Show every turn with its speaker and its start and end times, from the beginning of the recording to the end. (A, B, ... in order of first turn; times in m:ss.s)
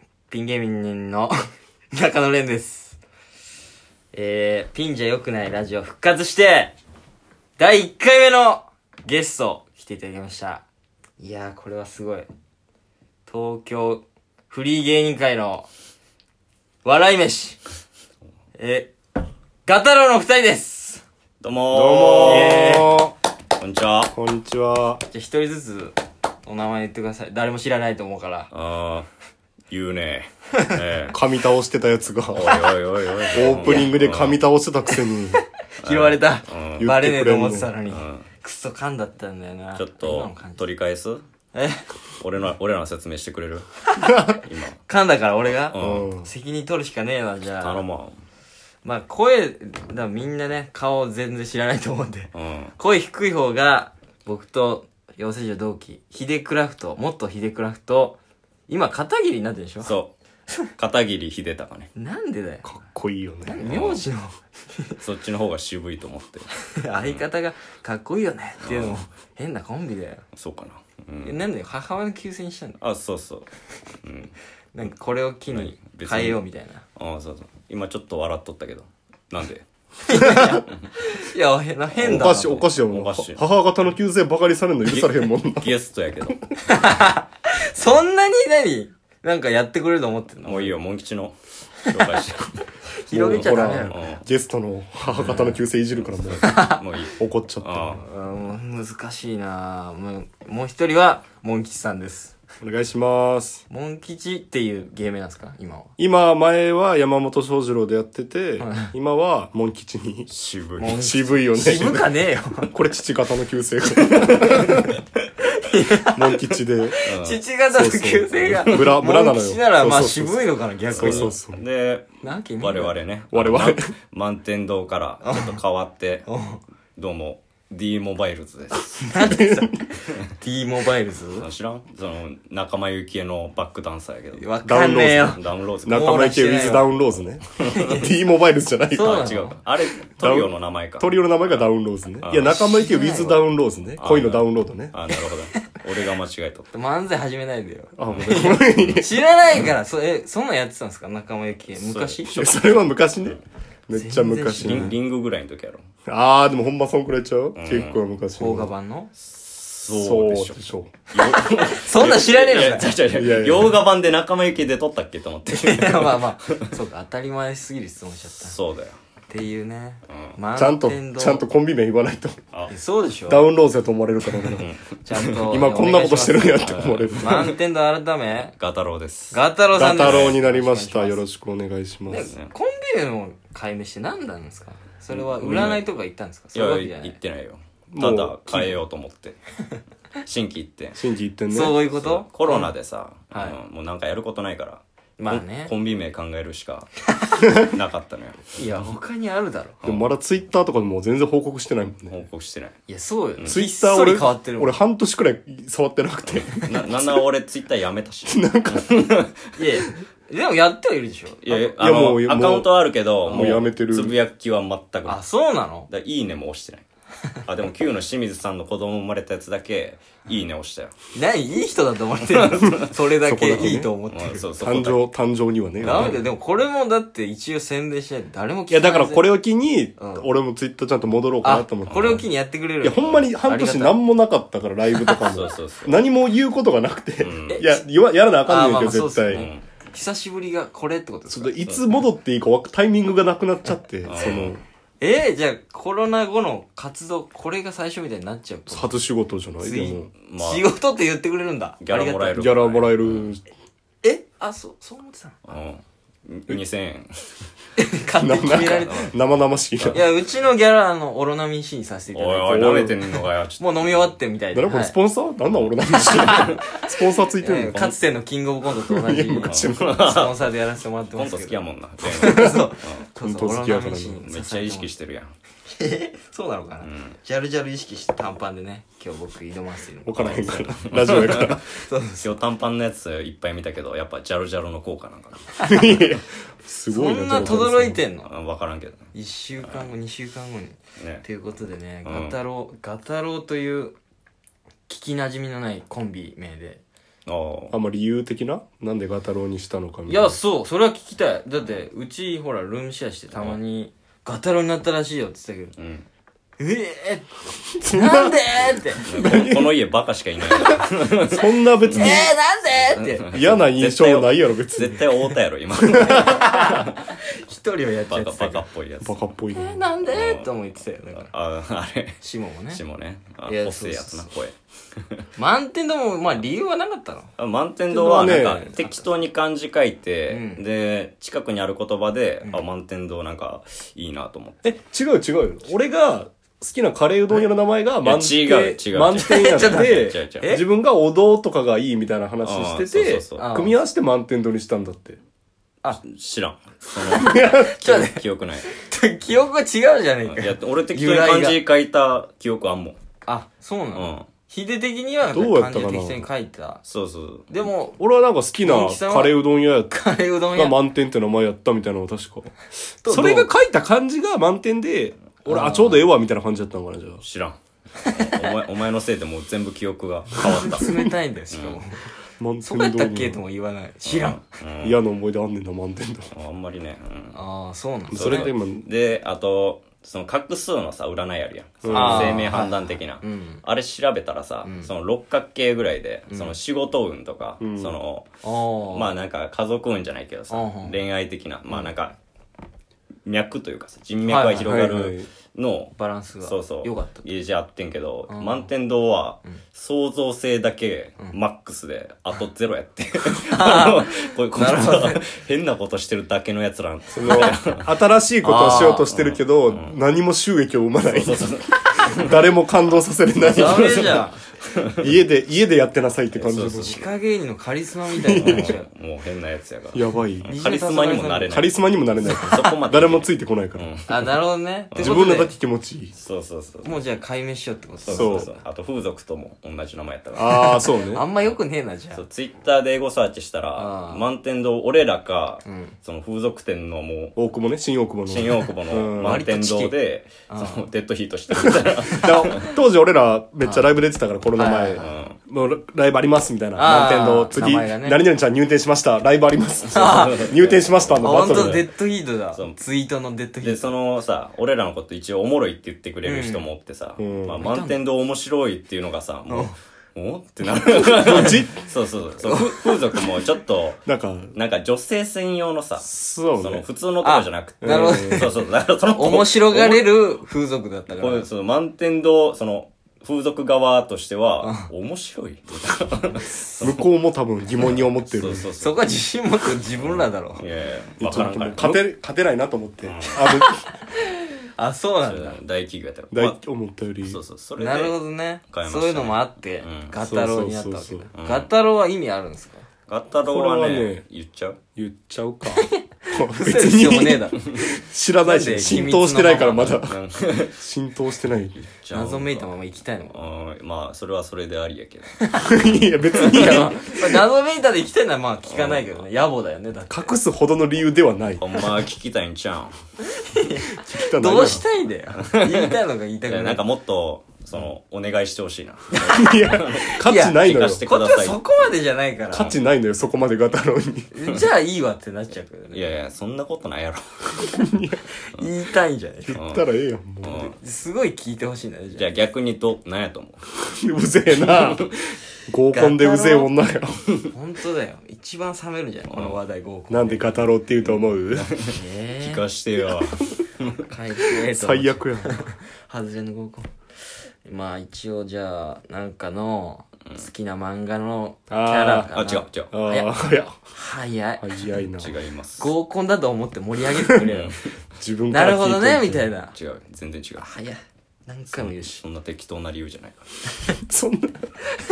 0:00.3-0:01.3 A
0:01.9-0:03.0 A
0:04.1-0:06.8 A
0:07.6-0:10.6 A
0:11.2-0:12.3 A
0:13.3-0:15.7 A
0:16.8-0:17.6 A
0:18.6-0:18.9 A
0:19.6-0:21.0 A
0:21.4-0:22.9 B
0:21.7-0:23.1 C
0:22.2-0:23.0 A
0:23.6-0:24.1 B
0:24.1-0:25.0 C
0:25.1-0:28.5 A
0:28.5-0:29.1 B
0:29.7-0:31.2 B
0:31.1-0:32.6 C
0:32.3-0:34.4 B
0:33.3-0:35.4 C
0:33.4-0:33.9 A
0:35.8-0:40.6 A
0:35.8-0:36.9 B
0:36.8-0:37.7 C
0:37.9-0:38.3 B
0:39.8-0:41.2 B
0:41.5-0:41.8 A
0:42.2-0:43.8 B
0:44.0-0:44.4 C
0:44.4-0:44.8 B
0:44.9-0:47.8 A
0:45.7-0:46.1 B
0:45.8-0:46.3 C
0:47.6-0:48.2 B
0:48.8-0:58.2 A
0:52.3-0:52.7 B
0:58.7-0:59.9 A
0:59.8-1:00.1 B
1:00.8-1:01.9 B
1:02.0-1:02.6 A
1:02.6-1:03.6 C
1:03.4-1:05.0 A
1:03.6-1:04.0 B
1:05.0-1:06.5 B
1:06.7-1:10.2 A
1:07.0-1:07.3 B
1:08.6-1:09.0 B
1:10.4-1:11.4 B
1:11.2-1:12.8 A
1:12.8-1:13.5 B
1:14.0-1:14.4 B
1:14.7-1:16.8 A
1:15.5-1:16.4 B
1:17.0-1:19.7 B
1:20.0-1:22.8 A
1:20.2-1:20.6 C
1:20.4-1:20.9 B
1:22.0-1:25.7 C
1:22.0-1:23.5 B
1:24.8-1:26.4 B
1:26.7-1:30.8 A
1:30.4-1:32.6 B
1:33.0-1:34.0 A
1:33.1-1:36.6 C
1:33.2-1:34.2 B
1:35.2-1:35.6 A
1:36.0-1:38.0 B
1:36.4-1:36.8 A
1:37.2-1:38.0 C
1:38.0-1:42.4 A
1:42.6-1:43.6 C
1:43.7-1:45.9 A
1:46.0-1:50.3 C
1:48.6-1:48.9 A
1:50.3-1:51.0 B
1:50.8-1:52.7 A
1:50.9-1:52.1 C
1:52.7-1:55.0 C
1:54.5-1:54.8 A
1:55.4-1:56.4 A
1:56.1-1:57.0 C
1:57.0-2:01.4 A
1:57.0-1:57.4 B
1:57.7-2:01.6 C
2:00.9-2:06.3 B
2:02.2-2:03.0 A
2:03.3-2:03.9 C
2:05.2-2:05.6 A
2:06.3-2:06.6 A
2:07.0-2:09.1 B
2:09.0-2:11.5 A
2:09.2-2:09.7 C
2:11.4-2:14.5 B
2:14.4-2:16.9 A
2:14.6-2:19.3 C
2:15.3-2:16.0 B
2:17.6-2:18.0 B
2:17.8-2:18.0 A
2:18.9-2:19.6 A
2:19.1-2:21.7 B
2:20.2-2:25.0 C
2:22.2-2:22.6 B
2:22.4-2:23.4 A
2:24.0-2:26.7 B
2:26.7-2:32.8 A
2:28.0-2:29.1 C
2:28.1-2:29.0 B
2:31.7-2:32.4 B
2:32.3-2:34.9 C
2:33.9-2:35.0 A
2:34.6-2:35.8 B
2:36.1-2:38.7 C
2:37.6-2:38.0 B
2:38.3-2:39.1 A
2:39.2-2:46.7 B
2:39.9-2:40.9 C
2:41.6-2:43.0 A
2:43.1-2:43.8 C
2:45.5-2:48.6 A
2:48.4-2:49.0 B
2:49.3-2:51.4 A
2:50.1-2:50.4 B
2:50.6-2:52.4 C
2:52.7-2:53.5 A
2:53.3-2:54.7 C
2:54.5-2:55.4 B
2:55.0-2:58.5 A
2:55.5-2:57.5 C
2:56.6-2:57.6 B
2:58.4-3:00.4 B
2:59.3-3:01.2 A
2:59.8-3:02.3 C
3:02.1-3:07.2 A
3:02.2-3:02.5 B
3:05.1-3:05.9 B
3:06.5-3:09.4 B
3:07.9-3:08.8 C
3:10.2-3:11.0 B
3:11.0-3:11.8 C
3:11.5-3:12.7 A
3:11.9-3:17.0 B
3:13.3-3:13.6 A
3:15.2-3:15.7 A
3:17.5-3:18.9 B
3:18.6-3:19.8 A
3:19.8-3:20.1 B
3:19.8-3:22.2 C
3:22.1-3:22.8 B
3:22.9-3:24.8 A
3:23.5-3:27.2 C
3:26.3-3:29.4 B
3:28.3-3:29.1 C
3:29.6-3:31.7 A
3:31.4-3:35.2 B
3:31.8-3:32.7 C
3:33.2-3:34.2 C
3:35.1-3:35.9 A
3:35.9-3:36.8 B
3:37.5-3:40.9 B
3:41.2-3:44.5 A
3:42.3-3:42.8 B
3:43.2-3:43.9 C
3:44.1-3:45.1 B
3:44.6-3:46.2 C
3:45.8-3:46.2 B
3:45.8-3:49.4 A
3:48.7-3:52.3 C
3:50.0-3:50.3 A
3:51.4-3:54.0 A
3:51.9-3:52.2 B
3:52.8-3:59.5 C
3:55.2-3:56.0 B
3:57.2-3:57.6 B
3:57.5-3:57.8 A
3:58.4-4:01.6 A
3:59.3-3:59.7 B
4:01.3-4:04.6 C
4:04.1-4:04.6 B
4:05.0-4:09.0 A
4:08.7-4:10.1 C
4:09.6-4:12.4 A
4:10.2-4:10.7 B
4:11.8-4:13.3 B
4:12.3-4:13.4 C
4:14.0-4:15.4 A
4:15.5-4:17.4 B
4:17.8-4:19.1 A
4:18.2-4:20.0 C
4:18.6-4:19.2 B
4:19.8-4:20.0 B
4:19.9-4:25.0 A
4:22.1-4:24.1 B
4:22.5-4:23.0 C
4:24.5-4:27.9 C
4:26.0-4:26.8 A
4:27.4-4:34.9 A
4:27.7-4:28.0 B
4:28.8-4:30.0 C
4:29.4-4:30.5 B
4:31.2-4:33.0 B
4:32.3-4:32.6 C
4:33.2-4:34.2 C
4:34.2-4:35.3 B
4:35.7-4:42.4 A
4:36.8-4:37.2 B
4:40.1-4:41.7 C
4:40.2-4:41.6 B
4:42.2-4:46.0 B
4:45.6-4:48.0 C
4:46.9-4:48.3 A
4:47.3-4:47.6 B
4:48.2-4:49.1 B
4:49.1-4:54.0 A
4:49.6-4:49.9 B
4:51.0-4:51.3 B
4:52.0-4:52.4 B
4:54.9-4:56.8 A
4:57.3-4:57.8 B
4:57.7-5:00.3 C
5:00.1-5:05.7 A
5:05.8-5:06.1 B
5:06.6-5:07.4 A
5:07.8-5:08.4 C
5:07.9-5:09.1 A
5:09.0-5:16.9 B
5:09.1-5:09.8 C
5:11.3-5:12.3 C
5:11.9-5:13.3 A
5:13.3-5:15.1 C
5:15.7-5:16.6 C
5:16.0-5:18.7 A
5:18.1-5:19.2 B
5:19.0-5:19.8 C
5:19.6-5:21.3 A
5:20.0-5:20.5 B
5:21.1-5:22.2 B
5:22.2-5:22.8 A
5:22.7-5:24.6 B
5:23.5-5:24.3 A
5:25.4-5:27.3 A
5:27.4-5:34.6 B
5:27.9-5:28.8 C
5:30.3-5:30.6 A
5:34.6-5:45.2 C
5:38.0-5:40.6 B
5:39.2-5:40.6 A
5:42.4-5:43.5 B
5:43.4-5:43.8 A
5:45.9-5:48.7 B
5:47.1-5:47.7 C
5:47.2-5:51.6 A
5:50.3-5:53.0 B
5:53.2-5:56.8 A
5:53.9-5:54.3 B
5:55.3-5:56.3 C
5:56.8-5:57.5 B
5:57.5-5:58.0 A
5:58.0-5:59.9 C
5:58.6-6:00.8 A
6:00.5-6:02.5 C
6:03.0-6:03.5 A
6:03.1-6:07.2 C
6:05.4-6:06.1 A
6:07.2-6:11.8 B
6:08.0-6:08.4 A
6:10.4-6:12.0 A
6:10.4-6:11.1 C
6:12.4-6:13.4 C
6:12.6-6:14.4 A
6:14.0-6:15.0 B
6:14.8-6:16.3 C
6:16.3-6:17.4 B
6:17.3-6:18.5 A
6:18.1-6:18.9 C
6:18.1-6:28.3 B
6:21.8-6:22.5 C
6:21.9-6:23.6 A
6:24.6-6:24.9 A
6:26.3-6:26.6 A
6:27.6-6:28.0 C
6:28.4-6:29.2 A
6:28.8-6:32.2 B
6:30.5-6:31.0 A
6:31.7-6:31.9 A
6:33.3-6:47.9 B
6:34.3-6:34.8 A
6:34.6-6:35.3 C
6:35.9-6:37.3 A
6:38.3-6:38.7 A
6:43.5-6:45.3 A
6:47.1-6:54.2 C
6:48.4-6:49.1 A
6:48.5-6:50.0 B
6:51.0-6:52.5 B
6:53.4-6:54.3 B
6:53.5-6:54.4 A
6:54.8-6:55.1 B
6:55.0-6:57.0 C
6:56.3-6:57.1 B
6:56.8-6:58.9 A
6:58.2-6:58.7 C
6:58.3-7:01.8 B
6:59.9-7:00.5 C
7:00.5-7:01.6 A
7:01.5-7:03.9 C
7:02.3-7:04.3 B
7:04.1-7:05.5 A
7:04.9-7:05.2 B
7:05.0-7:06.2 C
7:06.2-7:07.0 B
7:06.8-7:08.5 A
7:08.0-7:10.9 B
7:08.1-7:08.5 C
7:10.4-7:11.3 C
7:10.4-7:12.2 A
7:12.1-7:17.4 B
7:13.8-7:14.2 A
7:15.7-7:16.0 A
7:17.4-7:19.4 C
7:18.3-7:22.7 B
7:19.2-7:19.9 A
7:20.5-7:20.9 A
7:21.6-7:31.9 C
7:22.1-7:22.6 A
7:23.6-7:23.9 A
7:24.6-7:25.1 A
7:25.0-7:25.4 B
7:26.8-7:28.2 A
7:29.9-7:30.5 A
7:29.9-7:31.9 B
7:31.2-7:33.9 A
7:32.5-7:32.8 B
7:33.6-7:44.0 B
7:36.2-7:36.7 A
7:37.2-7:37.6 C
7:37.6-7:38.0 A
7:39.5-7:39.7 A
7:40.8-7:41.8 C
7:41.3-7:41.5 A
7:42.5-7:43.0 A
7:44.1-7:44.6 C
7:44.6-7:50.3 B
7:46.0-7:46.9 C
7:47.2-7:51.5 A
7:47.8-7:48.5 C
7:51.1-7:57.0 B
7:54.6-7:54.9 A
7:56.8-7:58.6 C
7:57.8-7:59.1 B
7:58.8-8:00.6 A
7:59.8-8:02.0 B
8:01.2-8:03.8 C
8:03.0-8:03.4 B
8:03.4-8:05.6 A
8:05.2-8:06.6 B
8:06.3-8:07.4 C
8:07.2-8:10.2 B
8:07.8-8:12.9 A
8:10.2-8:11.3 C
8:11.4-8:11.7 B
8:13.1-8:14.8 B
8:13.5-8:14.2 C
8:15.0-8:21.8 C
8:15.8-8:17.6 A
8:18.4-8:20.0 A
8:19.9-8:20.8 B
8:21.8-8:25.4 B
8:22.1-8:23.4 A
8:25.4-8:25.9 A
8:25.6-8:27.4 C
8:26.4-8:26.9 B
8:26.4-8:30.3 A
8:28.6-8:29.2 B
8:30.1-8:31.8 C
8:31.6-8:32.9 B
8:33.3-8:36.8 A
8:33.9-8:34.8 C
8:35.4-8:41.7 B
8:39.2-8:39.5 A
8:39.3-8:41.1 C
8:40.2-8:42.8 A
8:42.5-8:44.3 C
8:44.3-8:46.1 A
8:45.9-8:47.8 B
8:47.8-8:48.2 C
8:48.5-8:49.6 A
8:49.4-8:50.7 C
8:49.5-8:49.9 B
8:50.4-8:50.8 B
8:50.8-8:52.3 A
8:52.2-8:53.6 B
8:53.8-8:55.2 C
8:54.6-8:55.0 B
8:55.7-8:57.2 C
8:55.9-8:56.7 A
8:57.5-9:00.6 A
8:59.3-8:59.6 B
9:00.1-9:01.7 C
9:01.0-9:04.0 B
9:01.9-9:02.6 A
9:04.0-9:06.9 A
9:04.7-9:05.6 C
9:07.6-9:13.3 A
9:11.7-9:12.3 C
9:12.3-9:12.9 B
9:12.9-9:13.8 C
9:13.9-9:14.8 A
9:14.6-9:15.3 C
9:15.2-9:15.9 B
9:15.8-9:17.8 A
9:17.2-9:17.5 C
9:17.5-9:17.8 B
9:18.2-9:19.5 C
9:18.5-9:19.7 A
9:19.7-9:20.8 B
9:20.6-9:22.2 A
9:21.7-9:23.6 B
9:24.0-9:24.6 C